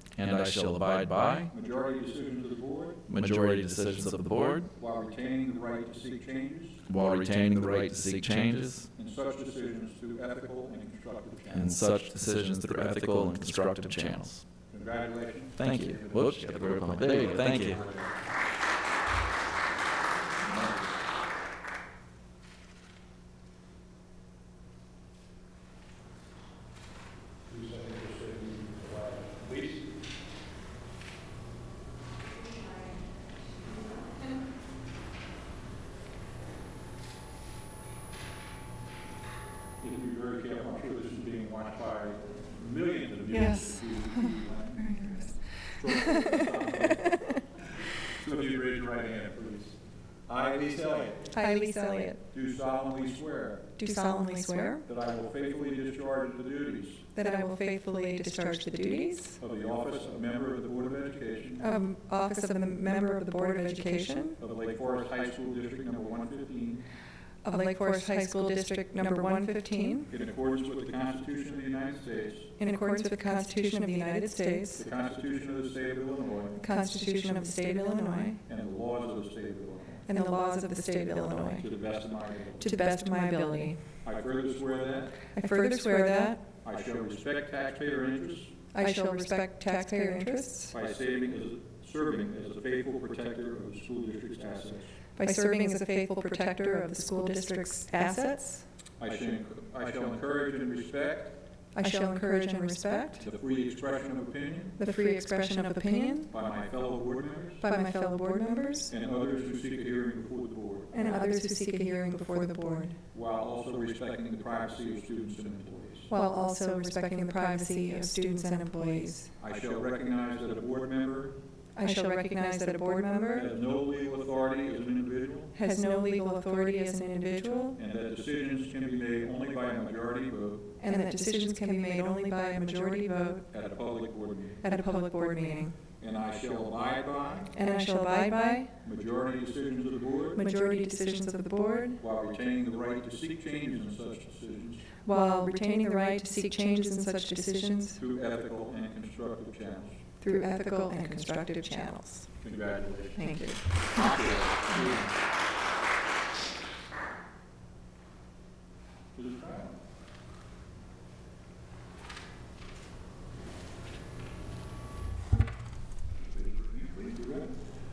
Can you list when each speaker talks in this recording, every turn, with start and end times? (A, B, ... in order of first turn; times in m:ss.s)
0:00.2-0:01.5 A
0:01.5-0:03.0 B
0:03.1-0:04.7 A
0:04.6-0:06.8 B
0:06.9-0:08.9 A
0:08.9-0:11.8 B
0:11.5-0:14.4 A
0:14.7-0:18.1 B
0:15.6-0:17.8 A
0:27.5-0:29.9 B
0:39.8-0:47.3 B
0:43.3-0:45.3 C
0:45.9-0:46.3 C
0:48.1-0:51.3 B
0:51.3-0:52.2 C
0:52.3-0:53.7 B
0:53.8-0:54.8 C
0:54.8-0:57.0 B
0:57.1-0:59.4 C
0:59.4-1:01.7 B
1:01.6-1:04.4 C
1:04.4-1:06.8 B
1:07.4-1:10.1 C
1:10.1-1:12.5 B
1:12.6-1:14.8 C
1:14.7-1:16.6 B
1:16.6-1:18.4 C
1:18.4-1:20.1 B
1:20.0-1:21.7 C
1:21.4-1:22.8 B
1:22.6-1:23.8 C
1:24.0-1:25.2 B
1:25.3-1:26.4 C
1:26.6-1:28.5 B
1:28.7-1:30.7 C
1:30.7-1:35.0 B
1:35.2-1:38.6 C
1:39.0-1:41.3 B
1:41.7-1:43.2 C
1:43.2-1:44.8 B
1:44.8-1:46.3 C
1:46.3-1:47.6 B
1:47.6-1:48.9 C
1:48.9-1:51.1 B
1:50.9-1:53.0 C
1:53.1-1:56.1 B
1:56.1-1:59.3 C
1:59.4-2:01.3 B
2:01.7-2:03.5 C
2:03.3-2:05.5 B
2:05.5-2:07.8 C
2:07.8-2:10.7 B
2:10.8-2:13.4 C
2:13.5-2:14.6 B
2:14.6-2:15.8 C
2:16.0-2:17.5 B
2:17.5-2:18.7 C
2:18.8-2:20.4 B
2:20.3-2:22.0 C
2:22.0-2:24.9 B
2:25.0-2:28.0 C
2:28.0-2:30.0 B
2:30.2-2:32.3 C
2:32.4-2:35.1 B
2:33.1-2:34.1 C
2:39.1-2:39.7 B
2:46.2-2:47.6 B